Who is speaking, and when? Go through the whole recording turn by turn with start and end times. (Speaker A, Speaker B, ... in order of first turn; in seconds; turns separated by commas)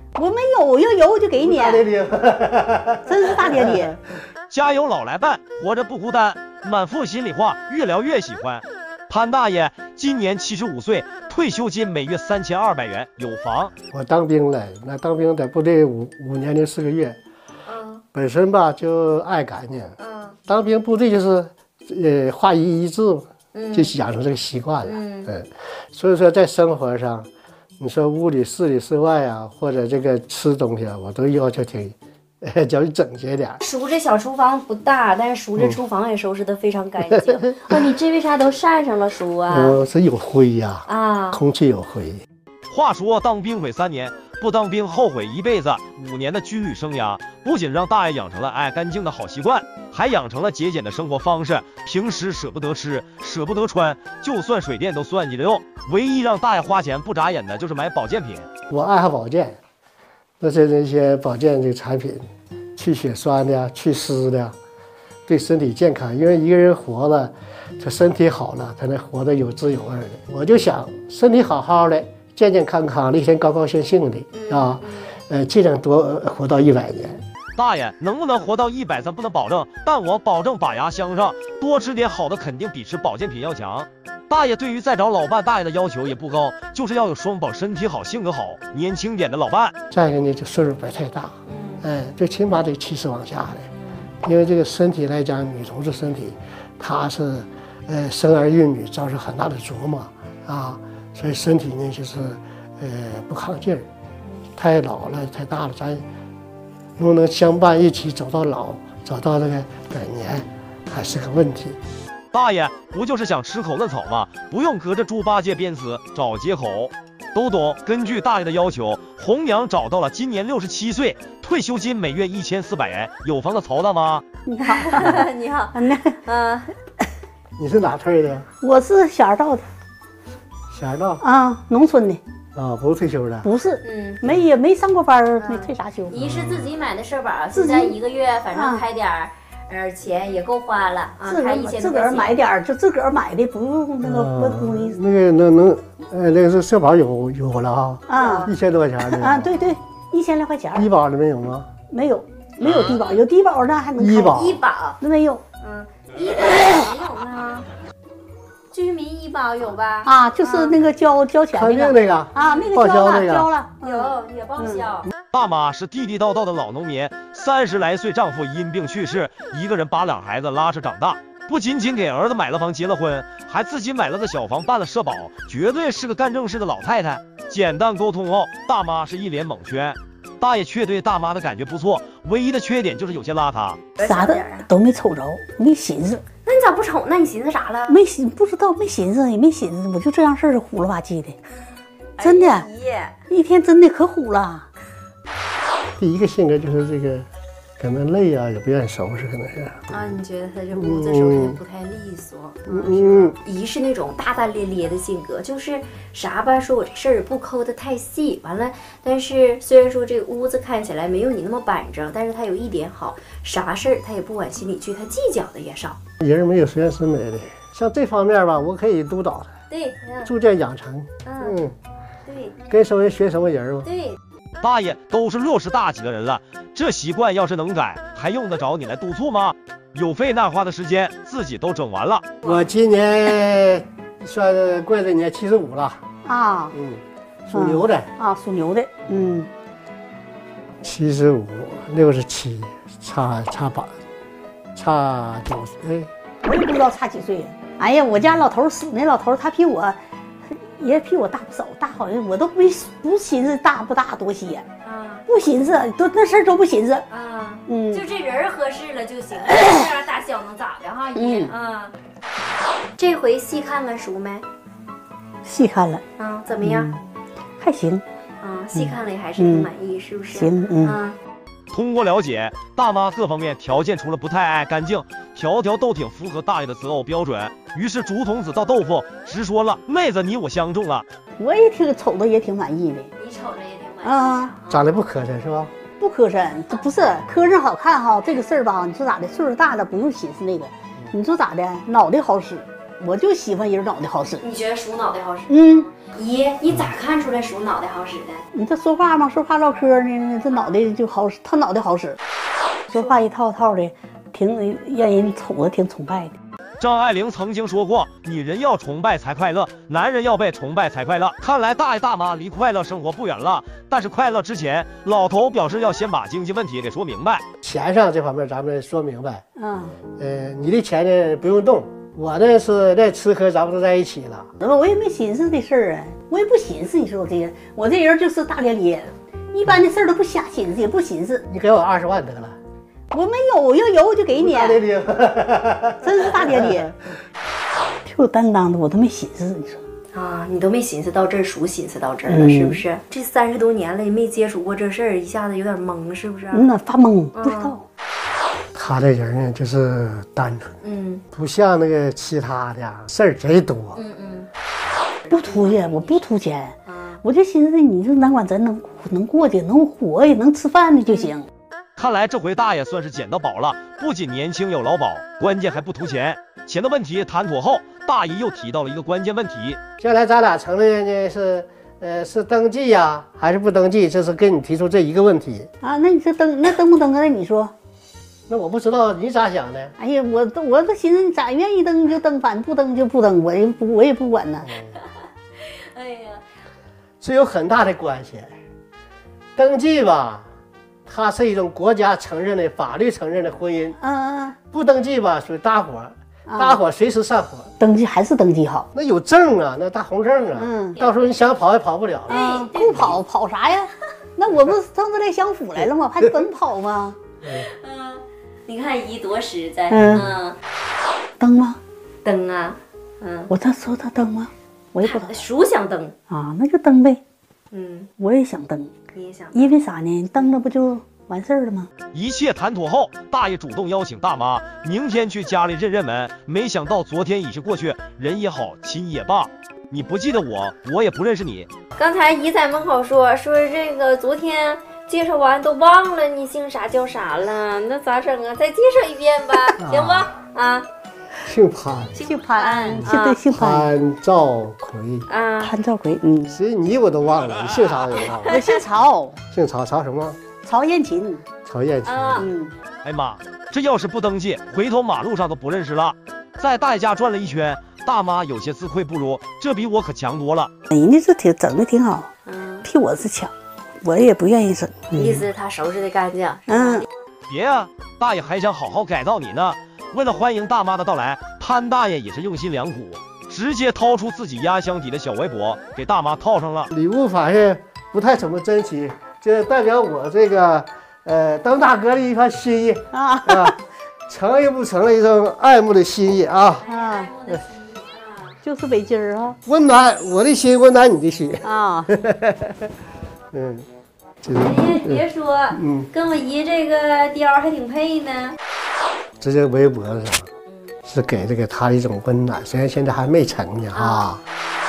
Speaker A: 0.1-1.9, Speaker B: 1.4-3.7, Speaker A: 3.0-3.9, Speaker C: 4.5-13.7, Speaker B: 13.9-17.2, Speaker D: 17.7-18.0, Speaker B: 18.1-20.0, Speaker D: 20.0-20.4, Speaker B: 20.5-27.3, Speaker D: 23.5-23.9, Speaker D: 24.9-25.3, Speaker B: 27.8-33.6, Speaker D: 33.6-39.8, Speaker B: 37.1-37.8, Speaker B: 39.5-42.2, Speaker D: 40.9-41.4, Speaker C: 42.7-58.5, Speaker B: 58.7-59.6, Speaker B: 60.4-62.2, Speaker B: 62.8-64.6, Speaker B: 65.3-77.2, Speaker D: 74.3-75.1, Speaker C: 77.6-89.7, Speaker B: 89.9-93.7, Speaker D: 91.5-91.8, Speaker D: 93.7-94.1, Speaker B: 94.2-103.9, Speaker B: 104.6-106.0, Speaker B: 107.0-111.8, Speaker C: 112.3-124.2, Speaker A: 124.5-126.2, Speaker D: 124.7-126.7, Speaker B: 127.6-128.5, Speaker A: 128.6-129.6, Speaker B: 130.7-131.2, Speaker A: 131.2-132.2, Speaker B: 132.5-133.5, Speaker A: 133.4-136.2, Speaker D: 133.8-134.2, Speaker D: 135.4-142.3, Speaker B: 136.2-136.6, Speaker A: 137.5-138.0, Speaker A: 138.5-138.8, Speaker A: 141.2-145.0, Speaker B: 144.0-149.5, Speaker A: 148.1-150.9, Speaker D: 148.1-148.5, Speaker B: 150.8-151.7, Speaker A: 151.9-155.4, Speaker B: 154.0-154.5, Speaker D: 154.3-155.0, Speaker D: 155.6-157.7, Speaker D: 158.7-160.8, Speaker A: 160.0-164.9, Speaker B: 161.5-163.5, Speaker D: 162.4-162.7, Speaker D: 163.8-165.1, Speaker C: 165.3-183.8, Speaker D: 184.0-184.6, Speaker A: 184.0-186.2, Speaker D: 186.4-188.0, Speaker A: 187.9-191.4, Speaker D: 192.2-193.1, Speaker A: 192.2-192.7, Speaker A: 193.3-194.7, Speaker B: 196.0-197.3, Speaker B: 197.8-200.0, Speaker D: 199.9-216.0, Speaker B: 200.7-201.6, Speaker B: 202.6-203.3, Speaker B: 216.2-219.5, Speaker D: 219.7-220.3, Speaker B: 220.2-221.7, Speaker D: 221.2-221.6, Speaker D: 222.3-222.6, Speaker B: 222.7-223.9, Speaker D: 223.8-224.2, Speaker C: 224.6-232.2, Speaker B: 232.4-236.0, Speaker A: 236.2-236.8, Speaker B: 236.7-238.1, Speaker A: 237.5-239.5, Speaker B: 240.8-244.0, Speaker B: 244.8-246.1, Speaker A: 246.4-254.6, Speaker D: 254.8-255.2, Speaker A: 255.3-257.1, Speaker D: 257.1-261.9, Speaker A: 257.7-258.1, Speaker A: 261.1-261.6, Speaker D: 263.0-264.4, Speaker A: 265.4-266.0, Speaker D: 266.2-266.9, Speaker A: 266.6-267.0, Speaker A: 267.6-268.0, Speaker D: 268.4-271.2, Speaker A: 268.8-269.7, Speaker A: 270.3-271.0, Speaker C: 271.7-281.1, Speaker A: 281.4-283.1, Speaker D: 283.2-284.9, Speaker A: 284.0-284.6, Speaker B: 284.7-285.7, Speaker A: 286.0-294.4, Speaker D: 294.4-298.4, Speaker A: 295.5-295.9, Speaker A: 298.5-302.2, Speaker A: 302.9-306.4, Speaker C: 306.8-317.4, Speaker B: 317.6-319.4, Speaker A: 319.6-319.9, Speaker B: 320.2-324.5, Speaker A: 324.6-331.4, Speaker B: 331.5-332.6, Speaker A: 333.1-334.8, Speaker B: 334.4-336.6, Speaker A: 336.0-336.9, Speaker A: 338.1-339.8, Speaker D: 340.1-346.6, Speaker A: 342.3-342.8, Speaker A: 346.5-347.8, Speaker D: 347.3-347.8, Speaker B: 348.7-350.7, Speaker D: 350.8-351.2, Speaker B: 351.3-354.0, Speaker D: 353.9-354.5, Speaker D: 355.2-356.2, Speaker A: 355.3-361.5, Speaker D: 356.9-357.2, Speaker D: 361.1-361.3, Speaker C: 361.9-369.8, Speaker B: 370.0-375.7, Speaker A: 375.8-377.7, Speaker B: 378.5-379.9, Speaker A: 380.0-384.7, Speaker B: 384.7-385.0, Speaker D: 385.6-386.4, Speaker B: 387.2-388.5, Speaker B: 389.6-390.5, Speaker B: 391.1-394.0, Speaker A: 394.0-394.6, Speaker B: 394.7-397.7, Speaker A: 396.5-396.8, Speaker A: 397.8-398.9, Speaker B: 398.9-402.4, Speaker A: 400.6-401.0, Speaker A: 402.3-407.2, Speaker D: 402.3-403.2, Speaker D: 407.4-410.6, Speaker A: 409.9-410.3, Speaker A: 411.4-411.8, Speaker D: 412.2-413.5, Speaker A: 413.5-415.4, Speaker D: 415.0-416.1, Speaker A: 416.3-417.2, Speaker D: 417.7-418.1, Speaker A: 418.2-418.9, Speaker D: 419.1-419.7, Speaker A: 419.5-421.9, Speaker C: 422.1-431.7, Speaker D: 432.0-440.9, Speaker B: 439.8-440.3, Speaker B: 441.4-442.2, Speaker D: 442.1-443.4, Speaker A: 442.2-443.9, Speaker B: 443.5-445.3, Speaker D: 445.3-445.8, Speaker A: 445.6-446.6, Speaker B: 446.5-448.6, Speaker A: 448.4-449.4, Speaker B: 449.5-450.4, Speaker A: 450.6-451.4, Speaker B: 451.6-452.5, Speaker D: 452.1-452.5, Speaker A: 452.4-452.7, Speaker C: 453.0-460.7, Speaker A: 460.9-462.3, Speaker D: 462.4-462.9, Speaker A: 462.8-465.4, Speaker D: 465.2-467.1, Speaker A: 466.7-467.1, Speaker C: 467.5-476.9, Speaker B: 476.9-483.8, Speaker A: 483.1-483.8, Speaker B: 484.3-486.8, Speaker D: 486.8-488.6, Speaker A: 486.9-487.3, Speaker A: 488.6-489.6, Speaker B: 489.6-492.8, Speaker A: 491.6-492.1, Speaker B: 493.5-493.9, Speaker B: 494.4-496.1, Speaker D: 494.6-498.6, Speaker B: 499.4-500.5, Speaker D: 500.7-500.9, Speaker B: 501.1-504.4, Speaker D: 503.9-504.3